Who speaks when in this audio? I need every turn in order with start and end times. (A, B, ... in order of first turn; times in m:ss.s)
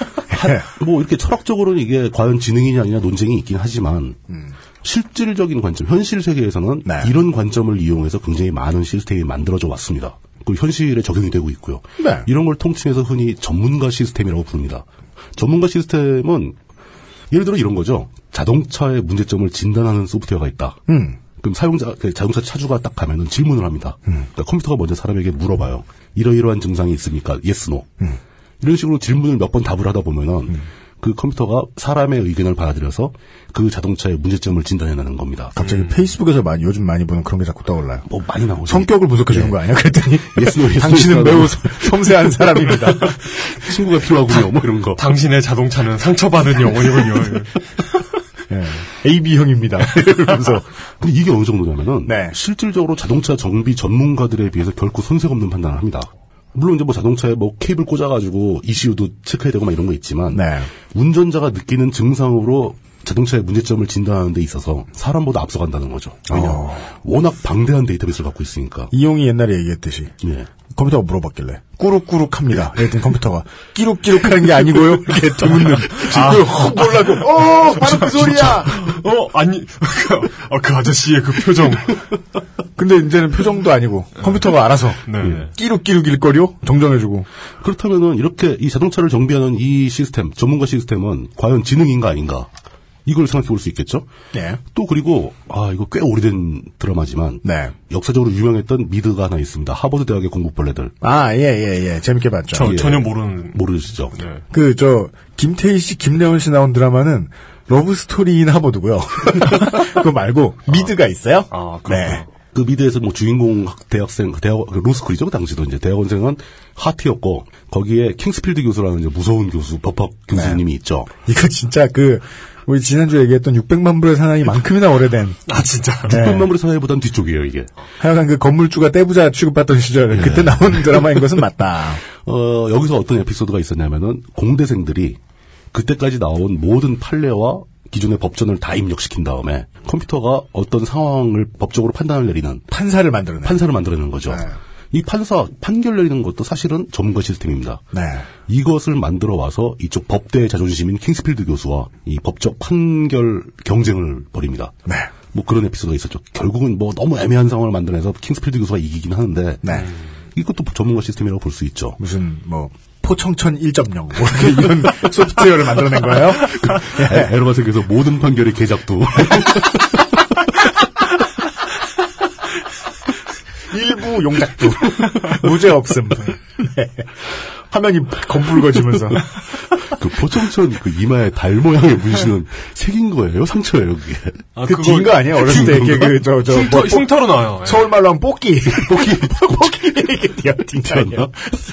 0:00.3-0:04.2 A
0:00.3-0:00.6 B
0:04.8-0:16.6 A
0:06.8-0:07.1 B
0:12.0-0:12.3 B
0:17.3-0:20.8 A
0:20.9-0:21.2 B
0:21.4-0:27.9 A
0:28.6-0:35.6 A
0:35.6-0:38.1 B
0:35.6-0:36.0 C
0:38.1-0:39.6 A
0:38.7-0:43.2 B
0:40.3-0:45.0 A
0:45.0-0:47.6 C
0:48.5-0:50.6 B
0:51.0-1:08.9 A
0:52.0-0:52.4 B
1:00.3-1:00.7 B
1:06.3-1:06.9 B
1:08.9-1:10.1 B
1:10.2-1:10.5 A
1:10.7-1:18.7 B
1:15.4-1:16.4 A
1:16.1-1:17.3 C
1:17.9-1:18.7 A
1:18.7-1:22.0 C
1:22.8-1:27.3 B
1:25.1-1:25.5 C
1:27.6-1:32.5 A
1:33.1-1:34.1 A
1:34.3-1:34.6 B
1:34.7-1:40.9 A
1:37.4-1:37.7 B
1:41.0-1:42.8 B
1:42.5-1:44.4 C
1:42.6-1:44.2 A
1:44.5-1:52.2 B
1:51.5-1:52.3 C
1:52.5-2:01.1 A
2:00.3-2:00.6 B
2:01.3-2:05.4 B
2:05.5-2:06.1 C
2:06.1-2:06.5 B
2:06.1-2:07.7 A
2:08.0-2:12.0 B
2:10.1-2:11.4 A
2:12.2-2:15.2 A
2:15.7-2:22.7 A
2:22.7-2:23.6 B
2:23.4-2:27.8 A
2:27.9-2:28.3 B
2:28.5-2:34.8 A
2:35.3-2:39.8 A
2:39.6-2:39.9 B
2:39.7-2:40.0 C
2:40.4-2:42.0 A
2:42.0-2:47.3 B
2:44.4-2:45.0 A
2:45.7-2:50.1 A
2:53.7-2:57.1 B
2:57.7-2:59.2 B
2:59.8-3:04.6 A
3:04.6-3:07.9 C
3:04.7-3:11.5 B
3:05.2-3:06.2 A
3:08.7-3:09.8 A
3:10.8-3:11.3 A